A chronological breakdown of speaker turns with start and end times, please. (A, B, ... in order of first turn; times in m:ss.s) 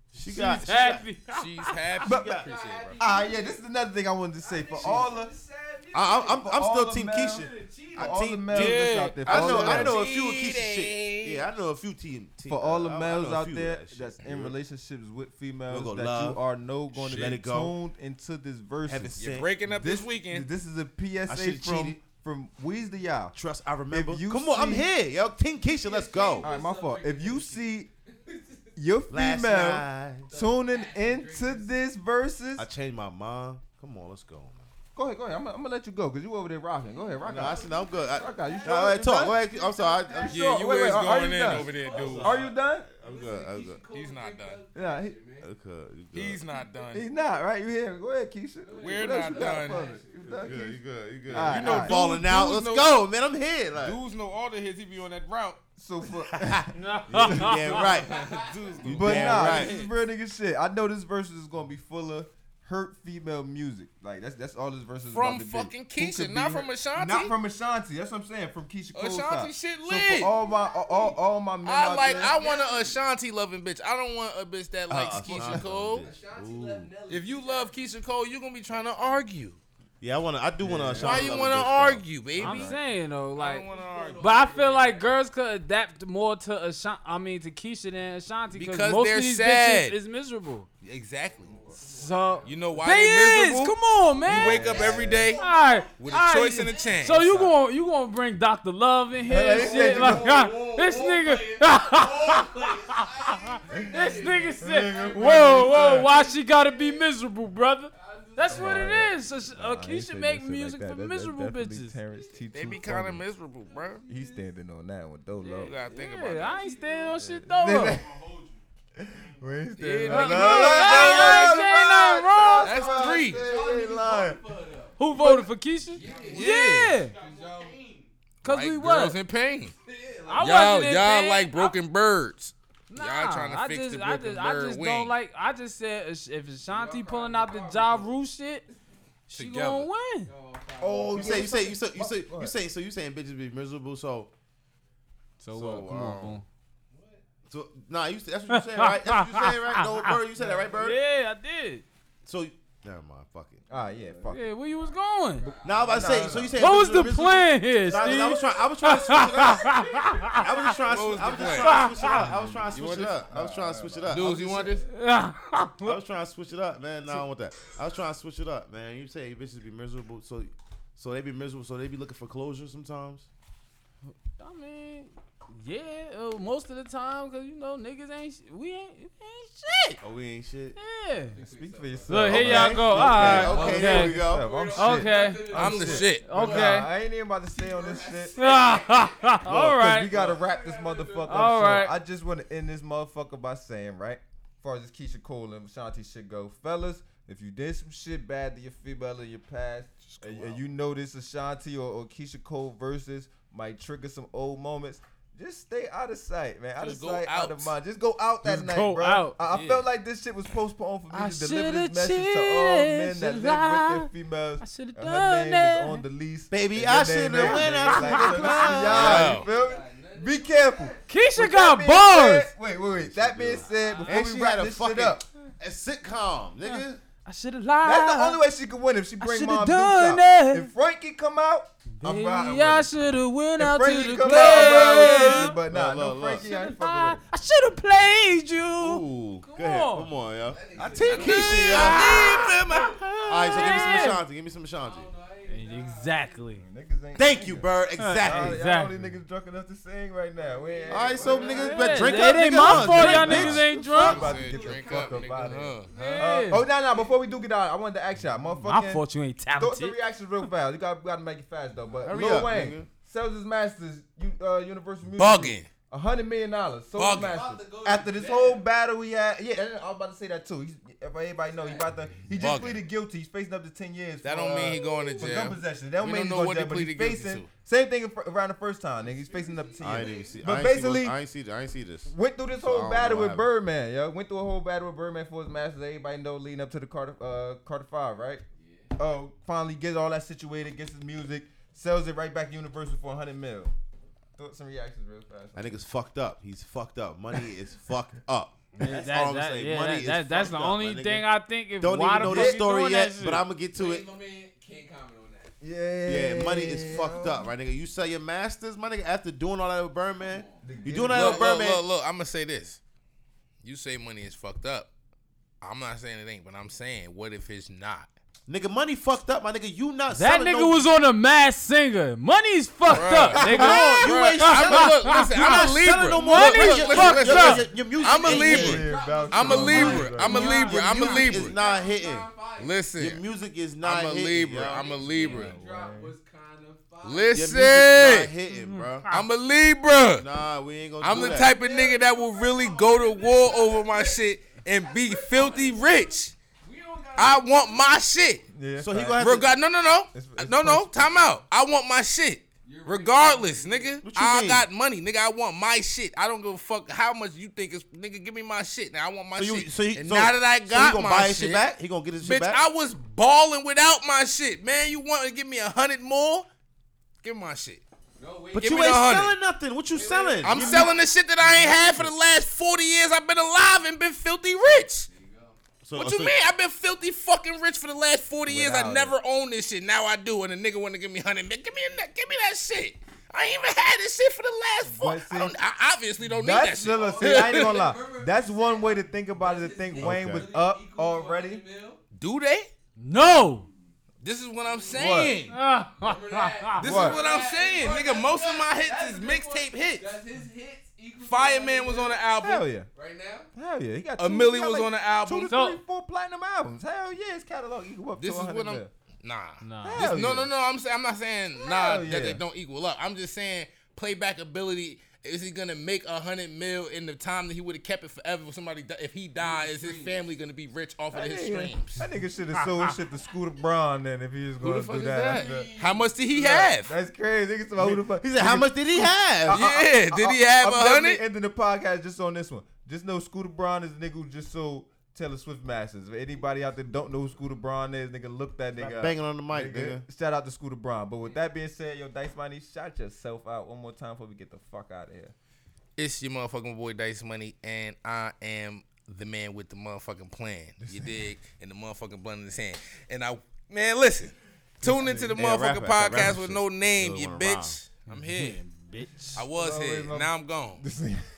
0:00.1-0:01.0 A
0:00.6-0:01.8 B
0:01.3-0:03.0 C
0:02.0-0:02.4 D
0:02.1-0:02.5 A
0:02.3-0:03.7 E
0:03.0-0:05.3 D
0:04.4-0:06.6 E
0:05.9-0:14.6 A
0:06.4-0:10.0 D
0:07.1-0:08.4 E
0:08.5-0:11.4 C
0:12.5-0:19.2 D
0:15.7-0:16.4 A
0:16.9-0:17.7 A
0:17.0-0:17.4 C
0:18.8-0:19.5 A
0:19.2-0:20.5 C
0:19.7-0:23.4 D
0:21.2-0:22.0 A
0:23.3-0:26.5 A
0:23.9-0:24.9 D
0:25.8-0:28.8 E
0:26.4-0:27.9 D
0:28.8-0:32.6 D
0:29.1-0:30.3 A
0:30.3-0:31.7 E
0:32.6-0:34.7 A
0:34.9-0:39.4 D
0:36.8-0:40.6 E
0:37.2-0:40.4 A
0:40.2-0:42.9 D
0:40.3-0:42.3 C
0:41.3-0:45.5 E
0:41.8-0:43.8 A
0:43.9-0:44.6 C
0:44.7-0:45.2 D
0:45.4-0:46.4 A
0:46.1-0:47.0 C
0:46.9-0:50.8 D
0:48.6-0:50.6 E
0:48.8-0:50.0 C
0:50.4-0:54.0 A
0:51.3-0:52.0 D
0:51.4-0:53.0 C
0:53.8-0:55.6 C
0:55.8-0:57.5 D
0:56.4-0:59.8 A
0:56.7-0:57.9 B
0:57.5-0:59.8 E
0:57.9-0:59.9 C
0:58.9-1:12.3 D
1:05.1-1:07.3 C
1:08.9-1:10.3 C
1:10.2-1:11.2 E
1:11.6-1:16.0 C
1:11.8-1:13.0 E
1:14.9-1:16.9 A
1:15.0-1:15.6 D
1:15.4-1:17.8 E
1:17.1-1:19.6 C
1:20.0-1:22.0 A
1:20.6-1:21.5 D
1:21.0-1:22.8 C
1:22.4-1:22.8 D
1:22.4-1:23.6 B
1:23.4-1:24.5 C
1:23.6-1:25.1 E
1:24.2-1:30.7 B
1:28.5-1:30.0 C
1:30.8-1:31.6 C
1:31.3-1:32.6 E
1:31.8-1:34.8 B
1:32.4-1:35.4 C
1:34.2-1:37.2 E
1:34.4-1:35.3 D
1:35.3-1:52.0 B
1:36.0-1:37.5 C
1:39.3-1:40.5 D
1:39.4-1:46.8 E
1:44.6-1:46.1 D
1:47.9-1:49.1 E
1:48.5-1:53.2 D
1:52.1-1:52.7 E
1:52.5-1:54.0 C
1:53.7-1:54.5 E
1:54.0-1:55.7 D
1:55.4-1:58.0 B
1:55.6-1:56.6 C
1:56.4-1:58.6 E
1:57.2-1:58.1 D
1:59.0-2:04.4 D
1:59.8-2:01.7 C
2:00.1-2:02.8 B
2:02.4-2:05.0 E
2:02.6-2:03.4 C
2:05.0-2:07.1 B
2:05.1-2:05.5 D
2:05.9-2:08.1 E
2:06.1-2:07.5 C
2:08.4-2:09.2 B
2:08.4-2:09.7 C
2:09.8-2:10.6 E
2:10.2-2:11.7 B
2:10.4-2:15.1 C
2:12.9-2:18.6 B
2:16.7-2:18.1 E
2:19.3-2:20.3 B
2:19.3-2:19.9 C
2:20.2-2:21.6 E
2:20.8-2:22.5 D
2:21.1-2:24.3 A
2:25.4-2:26.4 B
2:25.5-2:26.4 A
2:26.9-2:27.2 E
2:27.5-2:31.0 A
2:28.5-2:30.1 B
2:30.4-2:30.7 D
2:30.7-2:31.8 B
2:32.2-2:33.6 A
2:33.7-2:34.5 D
2:34.3-2:35.5 B
2:35.4-2:36.5 E
2:35.4-2:36.6 D
2:35.6-2:44.7 A
2:36.6-2:40.8 B
2:37.9-2:38.4 E
2:39.6-2:42.2 E
2:40.8-2:41.8 C
2:41.4-2:42.5 B
2:42.3-2:44.3 D
2:42.7-2:43.1 C
2:44.1-2:44.8 C
2:44.8-2:46.0 B
2:45.8-2:53.3 A
2:54.2-3:00.0 B
3:00.0-3:00.8 A
3:00.7-3:01.3 B
3:01.2-3:06.9 E
3:01.4-3:08.4 D
3:02.1-3:04.2 B
3:02.3-3:04.5 A
3:04.7-3:05.6 B
3:05.5-3:06.6 C
3:06.2-3:06.9 B
3:07.5-3:09.5 E
3:08.4-3:10.1 B
3:09.4-3:45.3 D
3:10.1-3:11.5 E
3:11.3-3:11.9 B
3:26.8-3:27.7 C
3:28.4-3:29.9 B
3:31.1-3:34.1 B
3:34.6-3:36.0 B
3:36.5-3:39.4 A
3:37.4-3:38.8 B
3:38.6-3:41.1 E
3:38.9-3:39.4 C
3:41.1-3:42.5 B
3:43.0-3:47.0 A
3:43.6-3:44.3 E
3:46.6-3:48.4 B
3:47.8-3:52.9 D
3:49.2-3:50.7 B
3:52.0-3:55.6 B
3:53.6-3:57.2 D
3:54.2-3:55.6 C
3:55.7-3:56.5 A
3:56.4-4:00.1 B
3:58.8-4:02.2 A
4:00.4-4:03.0 E
4:00.8-4:01.9 D
4:01.0-4:03.9 C
4:01.4-4:02.8 B
4:03.3-4:05.1 A
4:03.4-4:04.2 B
4:03.8-4:04.1 E
4:04.8-4:06.6 E
4:05.5-4:06.6 B
4:06.6-4:11.8 D
4:07.2-4:08.6 A
4:08.0-4:08.9 B
4:10.3-4:17.3 E
4:10.9-4:14.1 A
4:11.7-4:14.2 B
4:12.5-4:19.0 D
4:13.9-4:16.3 C
4:15.9-4:16.6 B
4:18.6-4:20.0 B
4:19.6-4:41.2 D
4:21.9-4:22.5 E
4:22.0-4:22.9 A
4:25.2-4:25.7 C
4:27.0-4:27.4 C
4:27.1-4:28.6 E
4:31.4-4:32.2 E
4:32.3-4:32.8 C
4:34.2-4:37.5 C
4:34.8-4:35.5 B
4:39.0-4:40.8 E
4:39.8-4:43.5 A
4:42.0-4:48.4 D
4:48.6-4:49.0 E
4:49.0-4:53.7 D
4:54.4-4:55.8 D
4:55.5-5:01.3 A
4:58.7-5:03.4 B
5:01.8-5:04.1 A
5:02.2-5:02.6 D
5:03.7-5:05.6 E
5:05.6-5:07.5 D
5:06.1-5:11.8 A
5:10.2-5:10.6 E
5:10.6-5:11.5 D
5:11.1-5:12.8 C
5:13.6-5:14.9 C
5:15.6-5:18.1 C
5:18.5-5:20.9 A
5:20.1-5:27.6 B
5:22.8-5:31.5 C
5:23.3-5:23.8 D
5:23.3-5:28.8 A
5:26.9-5:32.8 E
5:28.2-5:30.6 D
5:29.5-5:31.2 B
5:29.7-5:32.3 A
5:32.6-5:33.2 C
5:33.0-5:35.0 A
5:33.8-5:35.5 C
5:34.6-5:37.6 E
5:35.2-5:36.2 D
5:37.0-5:38.3 C
5:37.3-5:39.1 A
5:38.5-5:39.2 B
5:39.1-5:40.3 C
5:40.2-5:41.6 A
5:41.0-5:46.3 C
5:41.1-5:44.2 E
5:44.8-5:48.0 E
5:47.2-5:48.4 C
5:48.5-5:49.4 D
5:48.8-5:49.5 A
5:49.2-6:01.6 C
5:50.1-5:51.1 D
5:52.6-5:54.0 E
5:54.0-5:54.7 A
5:59.4-6:02.6 A
6:02.2-6:06.5 C
6:07.2-6:07.8 C
6:08.2-6:09.0 E
6:08.5-6:10.9 A
6:08.6-6:09.3 C
6:09.9-6:11.0 E
6:10.4-6:15.1 C
6:11.4-6:12.1 D
6:15.1-6:15.6 E
6:15.8-6:16.4 A
6:15.9-6:27.9 C
6:18.5-6:19.1 D
6:24.8-6:25.6 D
6:26.3-6:31.6 D
6:26.8-6:32.0 E
6:30.0-6:30.5 A
6:32.1-6:32.7 C
6:33.0-6:33.7 B
6:34.2-6:35.6 C
6:34.6-6:35.3 E
6:34.9-6:35.4 D
6:35.5-6:36.8 B
6:36.0-6:42.4 E
6:36.8-6:40.1 C
6:36.8-6:37.2 D
6:41.2-6:42.6 C
6:42.4-6:42.9 D
6:42.9-6:43.5 E
6:43.5-6:48.9 D
6:44.2-6:45.5 C
6:45.4-6:45.8 B
6:48.2-7:02.0 C
6:49.6-6:50.1 B
6:49.8-6:50.5 D
6:51.6-6:52.4 D
6:59.4-7:00.2 E
7:01.1-7:05.7 D
7:04.6-7:06.9 C
7:05.3-7:06.2 E
7:06.3-7:25.3 D
7:07.8-7:09.6 A
7:09.5-7:11.2 C
7:18.8-7:20.0 A
7:26.0-7:38.6 C
7:30.8-7:31.1 D
7:34.8-7:37.8 A
7:34.8-7:35.3 D
7:38.1-7:39.4 B
7:39.4-7:40.8 C
7:39.5-7:41.3 D